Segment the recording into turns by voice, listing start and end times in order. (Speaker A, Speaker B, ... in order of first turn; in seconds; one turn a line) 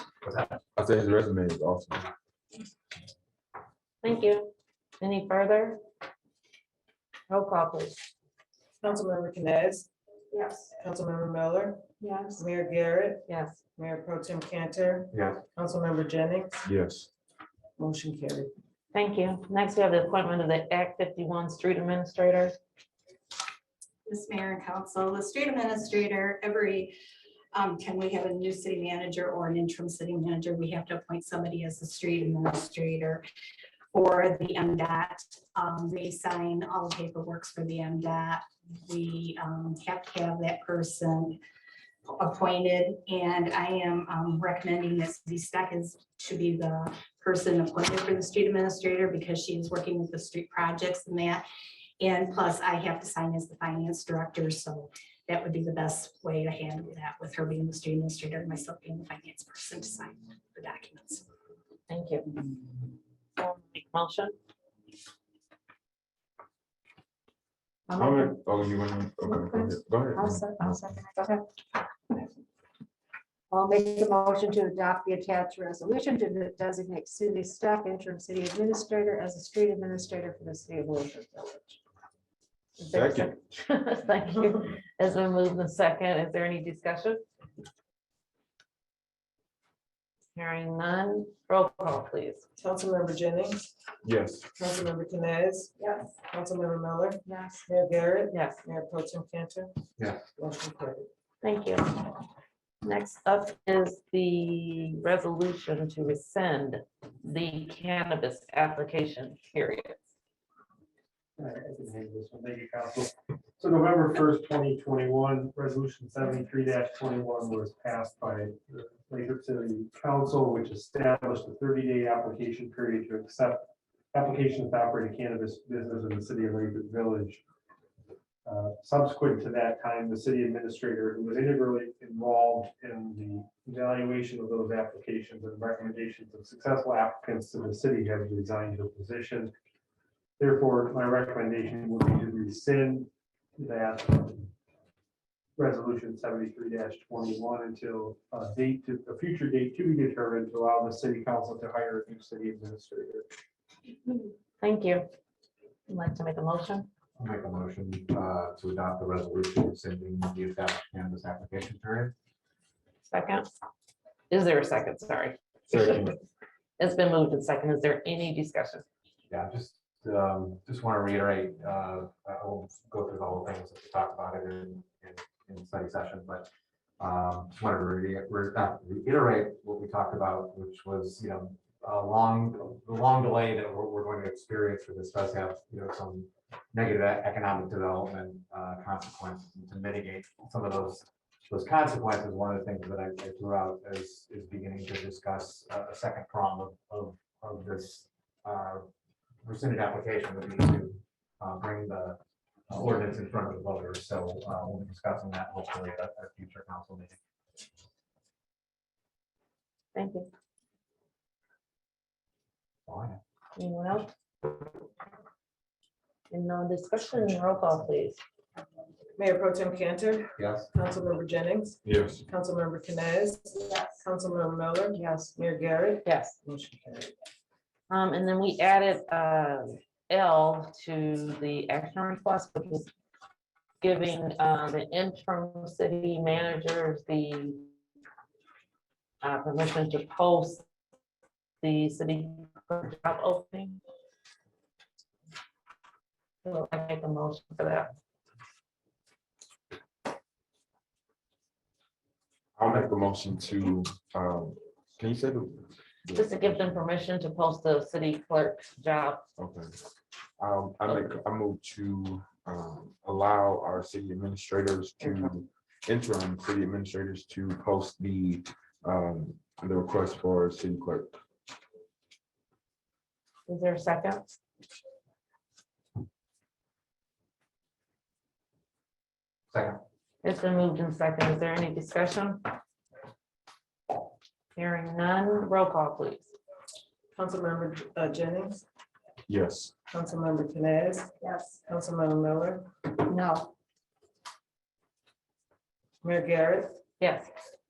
Speaker A: 0.8-2.0
Speaker B: 4.0-5.8
Speaker B: 7.3-8.0
Speaker C: 8.8-9.9
Speaker D: 10.3-10.7
Speaker C: 10.7-13.2
Speaker B: 13.3-13.6
Speaker C: 13.8-16.6
Speaker E: 15.1-15.4
Speaker A: 16.6-17.1
Speaker C: 17.8-18.5
Speaker B: 18.9-22.5
Speaker F: 24.1-26.9
Speaker F: 27.5-33.2
Speaker F: 33.9-41.4
Speaker F: 42.0-51.4
Speaker F: 52.0-61.2
Speaker B: 61.9-62.4
Speaker B: 63.4-64.3
Speaker D: 67.9-68.4
Speaker A: 68.0-70.8
Speaker D: 69.2-71.5
Speaker D: 73.5-81.8
Speaker B: 82.8-87.2
Speaker A: 82.9-83.2
Speaker B: 90.3-92.4
Speaker C: 92.6-93.6
Speaker A: 94.0-94.5
Speaker C: 94.5-99.7
Speaker D: 97.3-97.6
Speaker B: 98.3-98.6
Speaker E: 100.0-100.2
Speaker C: 100.4-101.1
Speaker B: 101.4-102.1
Speaker B: 102.8-110.0
Speaker G: 111.4-127.4
Speaker G: 128.4-139.5
Speaker G: 140.4-144.5
Speaker G: 145.6-153.2
Speaker B: 154.1-155.1
Speaker B: 155.9-156.9
Speaker E: 157.2-162.1
Speaker B: 163.1-163.5
Speaker B: 164.3-166.2
Speaker B: 166.8-168.8
Speaker E: 169.3-176.5
Speaker E: 177.0-198.9
Speaker E: 199.4-202.2
Speaker E: 202.7-207.2
Speaker B: 209.9-210.3
Speaker E: 212.9-213.2
Speaker B: 213.6-214.6
Speaker B: 216.3-218.2
Speaker C: 219.2-227.1
Speaker E: 220.4-220.7
Speaker A: 221.8-222.2
Speaker D: 225.0-225.3
Speaker B: 226.0-226.4
Speaker B: 227.9-232.9
Speaker B: 233.8-237.7
Speaker B: 239.2-240.6
Speaker B: 241.6-243.8
Speaker B: 246.4-247.9
Speaker A: 252.6-256.8
Speaker B: 256.1-259.2
Speaker A: 259.4-259.7
Speaker A: 260.4-271.1
Speaker B: 273.5-274.2
Speaker E: 279.5-279.8
Speaker B: 280.2-282.4
Speaker B: 284.6-286.3
Speaker C: 287.1-288.6
Speaker A: 289.3-289.7
Speaker C: 289.9-291.1
Speaker D: 291.2-291.6
Speaker C: 291.6-292.7
Speaker D: 293.0-293.5
Speaker C: 296.0-296.8
Speaker B: 297.0-297.3